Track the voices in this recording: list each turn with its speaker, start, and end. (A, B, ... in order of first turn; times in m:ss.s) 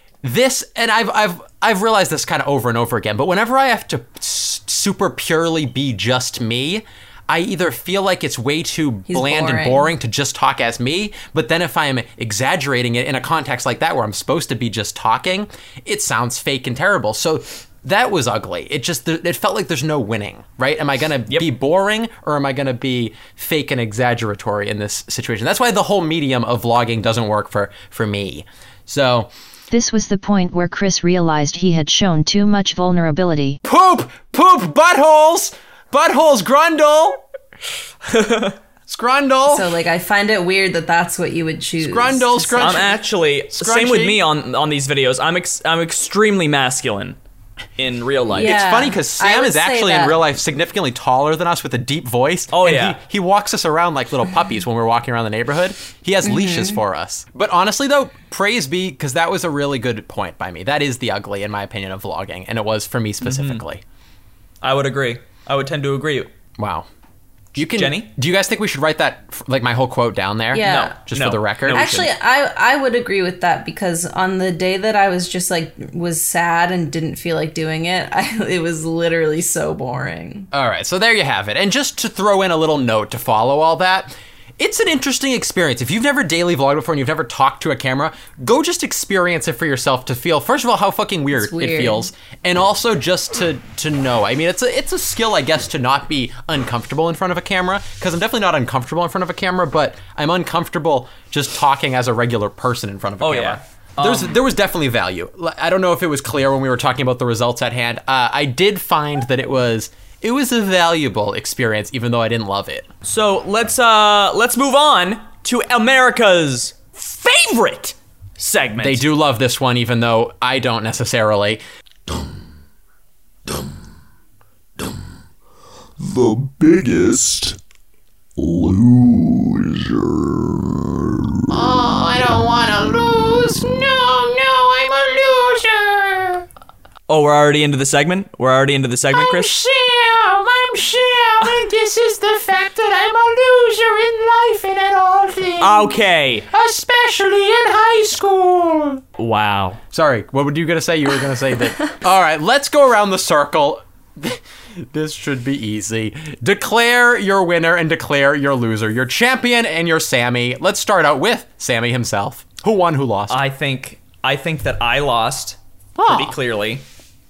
0:00.2-0:29.3 A
0:09.1-0:09.9 B
0:29.7-0:33.6 C
0:33.6-0:37.2 A
0:38.1-0:38.6 D
0:38.9-0:39.7 A
0:39.5-0:42.9 B
0:41.8-0:44.2 A
0:42.6-0:47.2 D
0:47.8-0:48.6 D
0:48.3-0:50.2 B
0:48.3-1:03.8 A
0:52.5-0:53.0 D
0:56.2-0:56.8 B
1:03.2-1:03.6 D
1:04.6-1:06.3 D
1:06.6-1:06.9 A
1:07.6-1:11.9 A
1:07.6-1:08.1 D
1:10.5-1:11.0 B
1:10.6-1:12.1 D
1:11.7-1:20.5 B
1:20.5-1:52.9 A
1:31.3-1:32.1 B
1:43.2-1:44.4 D
1:53.0-1:59.0 D
1:58.8-2:01.6 A
2:06.0-2:07.6 A
2:08.4-2:10.6 A
2:11.5-2:16.5 A
2:17.1-2:19.6 D
2:19.1-2:26.0 A
2:25.6-2:26.5 D
2:26.5-2:29.0 A
2:29.2-2:29.8 D
2:29.9-2:43.4 A
2:43.3-2:46.8 D
2:46.0-2:46.4 A